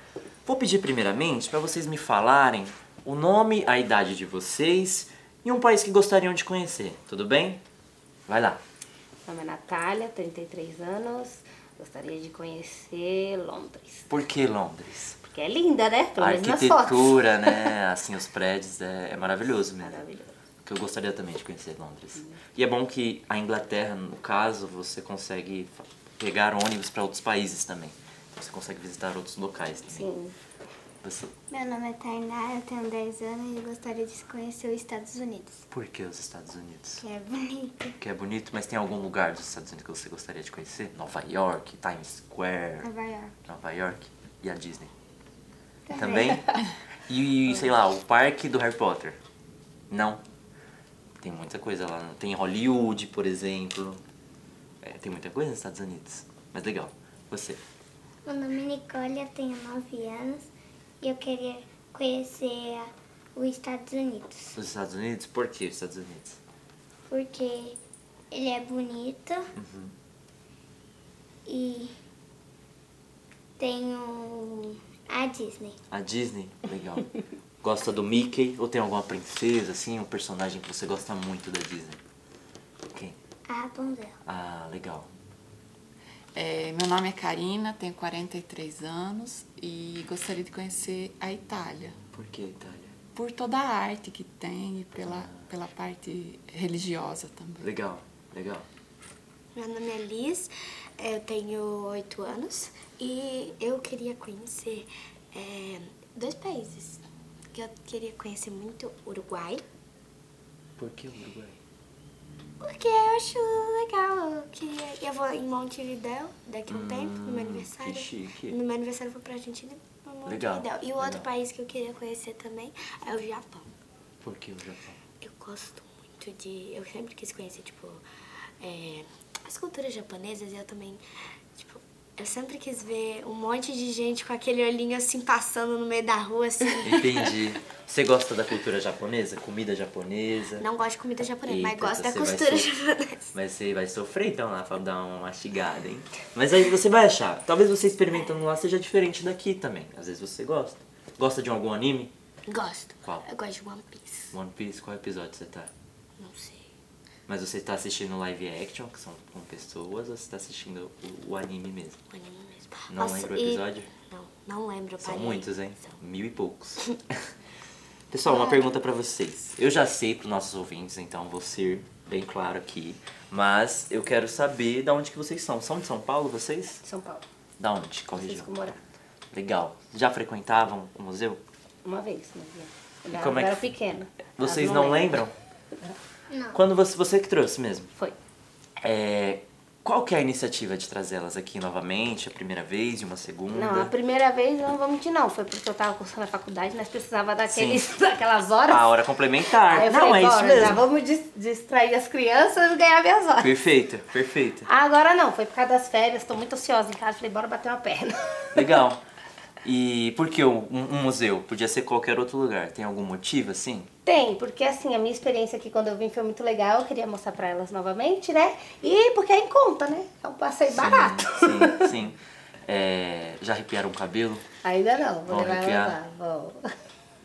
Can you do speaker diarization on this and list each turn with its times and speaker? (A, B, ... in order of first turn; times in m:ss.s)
0:00.5-0:07.6 A
0:08.3-0:08.6 A
0:09.3-0:14.1 B
0:14.1-0:15.2 A
0:15.2-0:17.7 B
0:16.2-0:20.0 A
0:19.6-0:20.3 B
0:20.6-0:30.1 A
0:29.9-0:30.3 B
0:31.0-0:31.3 A
0:31.5-0:35.6 C
0:35.7-0:37.0 A
0:37.0-0:37.9 C
0:38.0-0:42.9 A
0:42.8-0:43.3 C
0:43.5-0:44.9 A
0:45.9-0:46.6 B
0:45.9-0:49.2 A
0:49.9-0:50.2 A
0:51.2-0:54.0 A
0:54.8-0:57.6 A
0:58.2-1:00.5 C
1:01.0-1:04.6 C
1:04.6-1:06.4 A
1:07.1-1:07.8 C
1:08.3-1:09.5 C
1:09.6-1:09.9 A
1:11.5-1:11.9 C
1:13.6-1:15.8 C
1:15.9-1:22.0 A
1:22.9-1:23.2 A
1:23.5-1:24.2 C
1:24.2-1:25.1 A
1:26.4-1:32.0 D
1:32.1-1:32.9 A
1:33.2-1:37.7 D
1:35.0-1:35.5 A
1:37.6-1:38.7 A
1:39.6-1:49.6 E
1:50.8-1:51.6 A
1:52.6-2:03.7 E
1:56.7-1:58.6 A
2:00.3-2:01.3 A
2:04.2-2:05.0 A
2:05.2-2:08.0 E
2:08.6-2:11.0 E
2:11.6-2:17.1 E
2:16.8-2:20.7 A
2:20.6-2:23.3 E
2:21.4-2:22.7 A
2:23.3-2:32.1 A
2:32.5-2:34.3 E
2:34.3-2:35.7 A
2:36.2-2:36.7 E
2:37.3-2:42.0 A
2:42.1-2:46.0 E
2:42.9-2:43.9 A
2:45.0-2:47.2 A
2:48.1-2:56.8 A
2:48.3-2:48.8 E
2:56.8-2:57.2 B
2:57.6-2:58.5 A
2:58.2-2:58.8 B
2:59.3-3:01.4 A
3:01.8-3:05.2 B
3:03.1-3:03.7 A
3:04.4-3:05.3 A
3:06.3-3:06.6 C
3:06.5-3:07.9 A
3:08.8-3:13.9 A
3:13.5-3:18.9 B
3:17.5-3:17.9 A
3:18.7-3:20.8 A
3:19.6-3:23.6 B
3:23.4-3:24.7 A
3:24.7-3:28.6 B
3:28.5-3:29.0 A
3:29.6-3:33.9 A
3:34.0-3:41.9 B
3:40.7-3:44.4 A
3:44.6-3:46.6 B
3:45.3-3:46.0 A